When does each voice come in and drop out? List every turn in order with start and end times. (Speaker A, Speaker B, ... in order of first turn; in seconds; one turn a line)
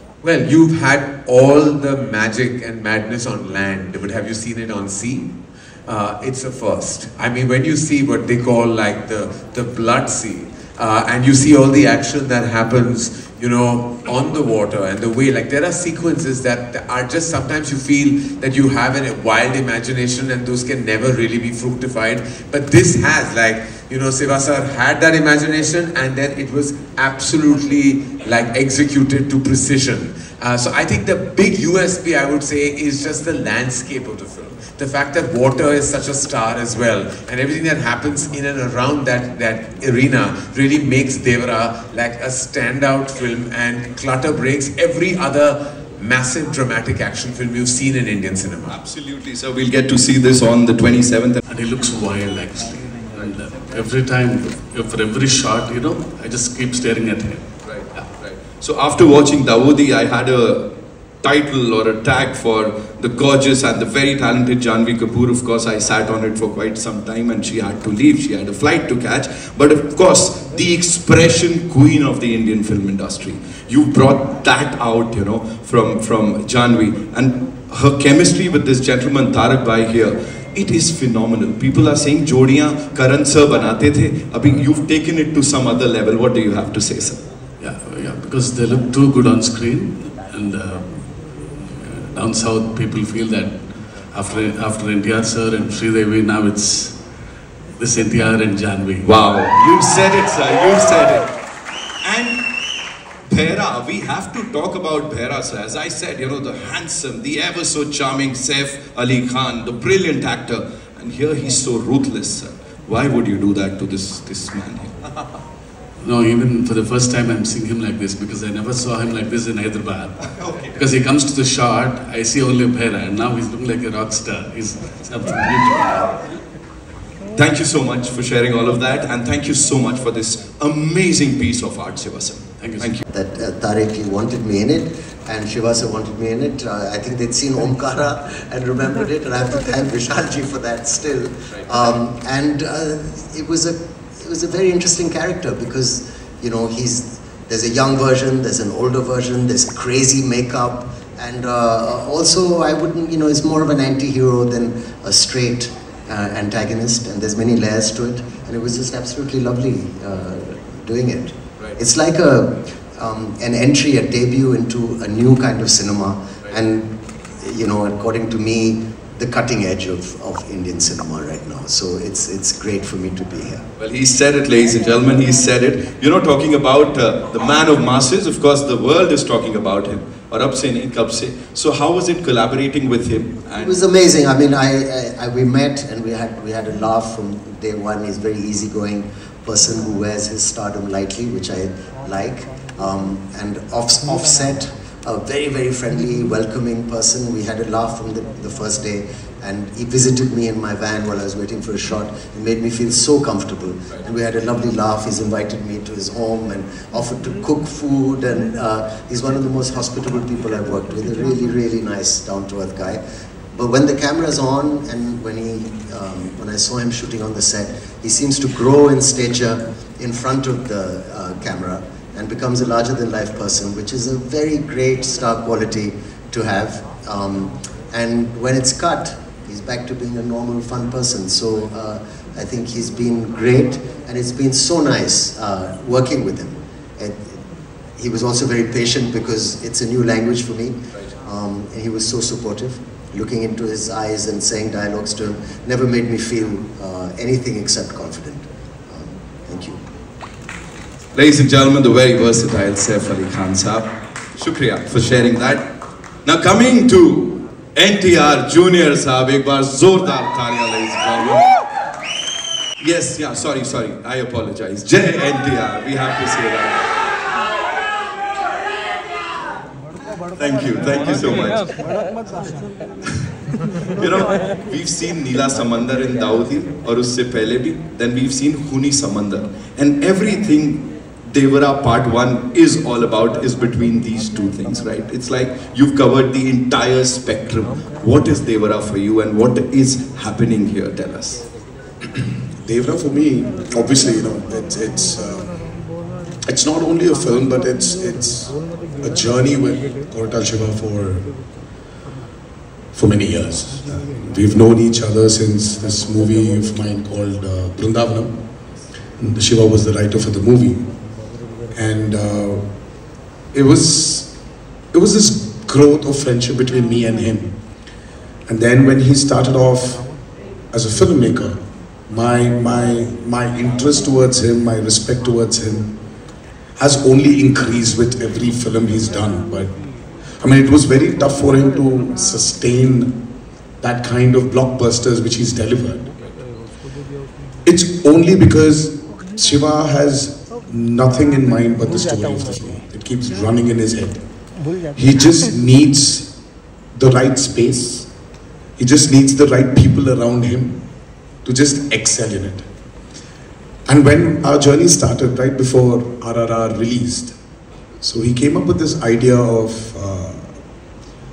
Speaker A: 0.2-5.3
Speaker A: 5.9-48.8
Speaker B: 48.7-51.4
Speaker C: 51.5-57.5
Speaker B: 57.6-60.6
Speaker B: 61.2-87.2
Speaker C: 87.6-93.6
Speaker C: 94.1-97.0
Speaker C: 97.8-99.2
Speaker B: 99.0-101.3
Speaker B: 102.0-102.4
Speaker B: 103.3-115.0
Speaker C: 116.0-120.2
Speaker B: 120.4-120.7
Speaker C: 120.8-126.1
Speaker B: 127.4-133.0
Speaker C: 132.6-133.0
Speaker D: 133.1-173.6
Speaker B: 173.8-183.8
Speaker D: 183.6-213.0
Speaker D: 213.5-237.4
Speaker D: 238.0-249.8
Speaker B: 251.2-255.6
Speaker B: 256.3-261.5
Speaker B: 262.8-266.8
Speaker B: 270.4-271.7
Speaker B: 274.0-291.4
Speaker E: 292.6-295.5
Speaker E: 296.5-301.2
Speaker E: 302.9-308.4
Speaker E: 309.2-310.8
Speaker E: 311.7-312.6
Speaker E: 313.5-314.3
Speaker E: 314.9-317.5
Speaker E: 318.5-320.0
Speaker E: 320.7-325.9
Speaker E: 326.8-329.7
Speaker E: 330.4-333.1
Speaker E: 333.8-336.0
Speaker E: 337.7-344.2
Speaker E: 345.0-346.3
Speaker E: 346.9-348.1
Speaker E: 348.8-350.8
Speaker E: 351.4-352.6
Speaker E: 353.9-357.4
Speaker E: 358.0-360.5